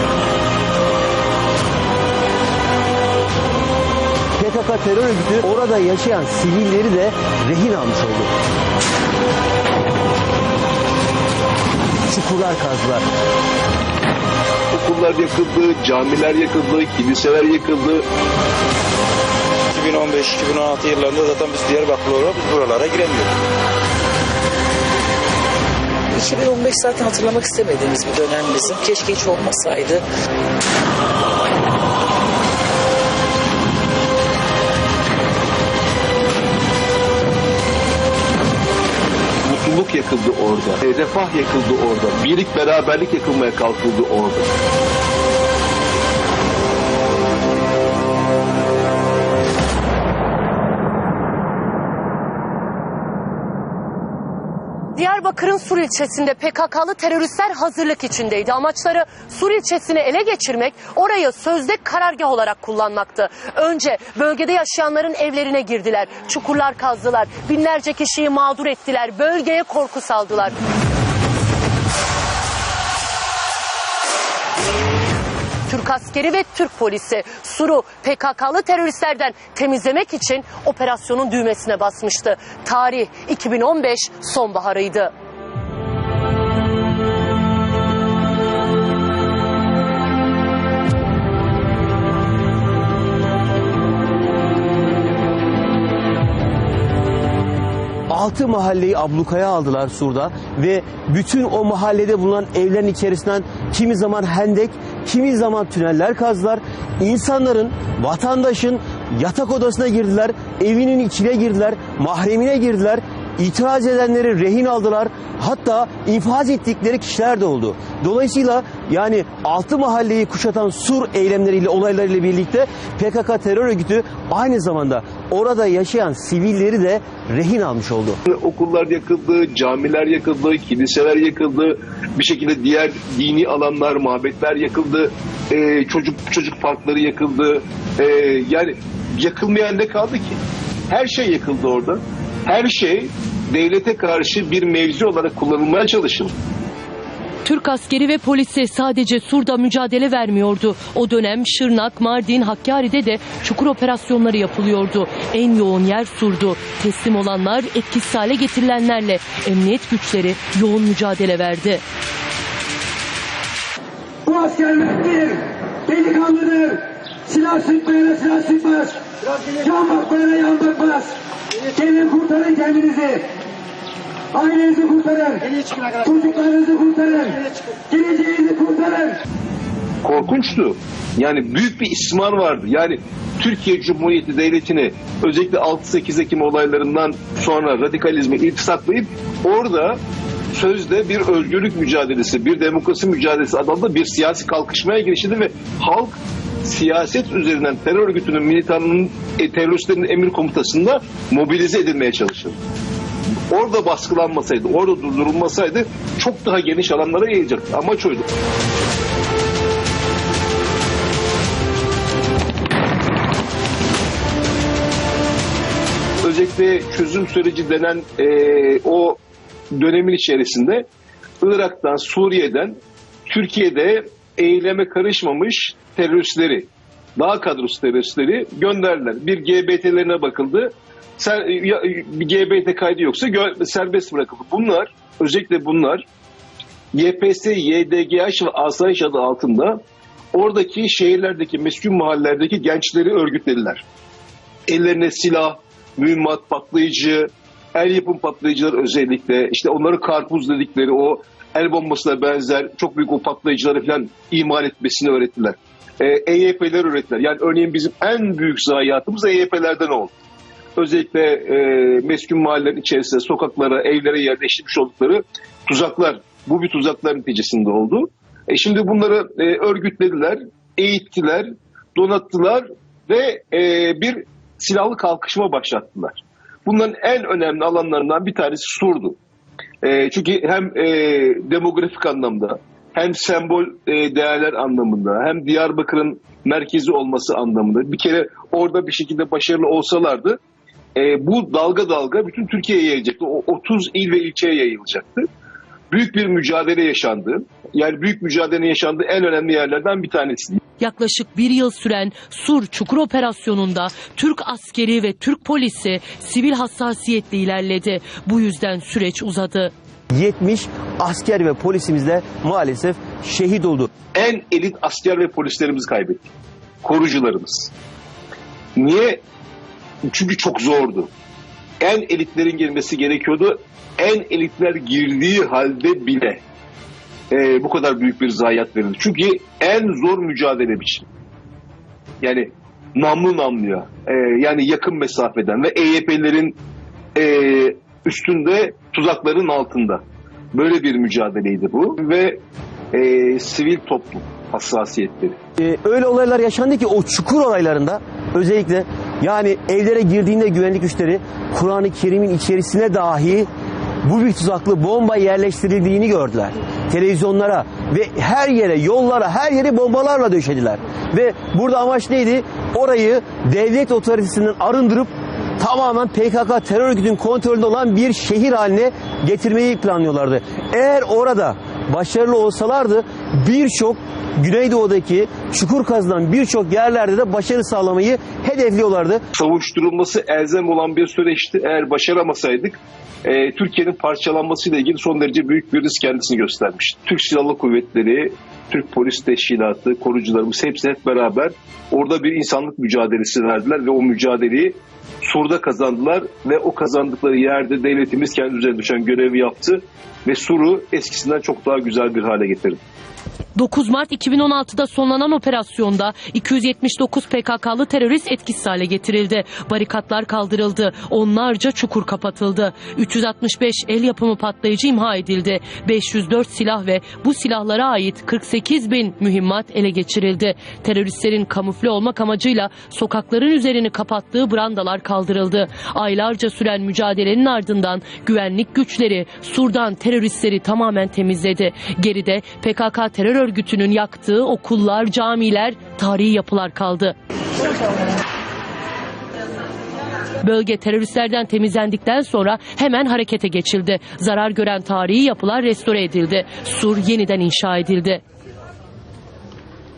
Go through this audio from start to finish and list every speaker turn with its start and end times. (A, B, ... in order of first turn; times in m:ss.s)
0:04.4-0:08.3 A
0:12.1-0:13.0 A
0:14.7-0:18.0 B
0:19.7-0:23.3 C
0:26.1-0:30.0 D
0:39.4-0:44.5 B
0:55.0-1:10.6 E
1:15.7-1:25.1 E
1:38.1-2:08.2 A
2:08.3-2:26.3 B
2:27.4-2:41.8 E
2:44.3-2:48.9 F
2:49.5-2:51.1 F
2:51.8-2:53.2 F
2:54.3-2:55.4 F
2:56.0-2:57.4 F
2:57.9-2:59.2 F
3:00.0-3:10.0 B
3:10.5-3:16.1 B
3:16.6-3:22.6 B
3:23.5-3:28.2 B
3:36.2-3:39.2 B
3:39.8-3:40.8 B
3:41.4-3:42.8 B
3:43.3-3:56.0 B
3:56.9-3:59.8 B
4:00.3-4:03.8 B
4:04.7-4:20.1 B
4:20.8-4:39.2 B
4:39.8-4:50.4 B
4:51.0-4:55.3 B
4:55.9-5:00.6 B
5:00.8-5:09.7 E
5:10.1-5:13.9 A
5:14.2-5:16.3 B
5:16.8-5:17.7 B
5:18.8-5:19.2 B
5:20.1-5:21.1 B
5:21.8-5:26.4 B
5:27.3-5:31.1 B
5:32.2-5:36.6 B
5:37.2-5:42.4 B
5:42.9-5:45.4 B
5:45.6-5:53.5 A
5:54.0-6:19.2 A
6:19.4-6:42.8 B
6:43.6-7:17.2 E
7:20.4-7:28.2 E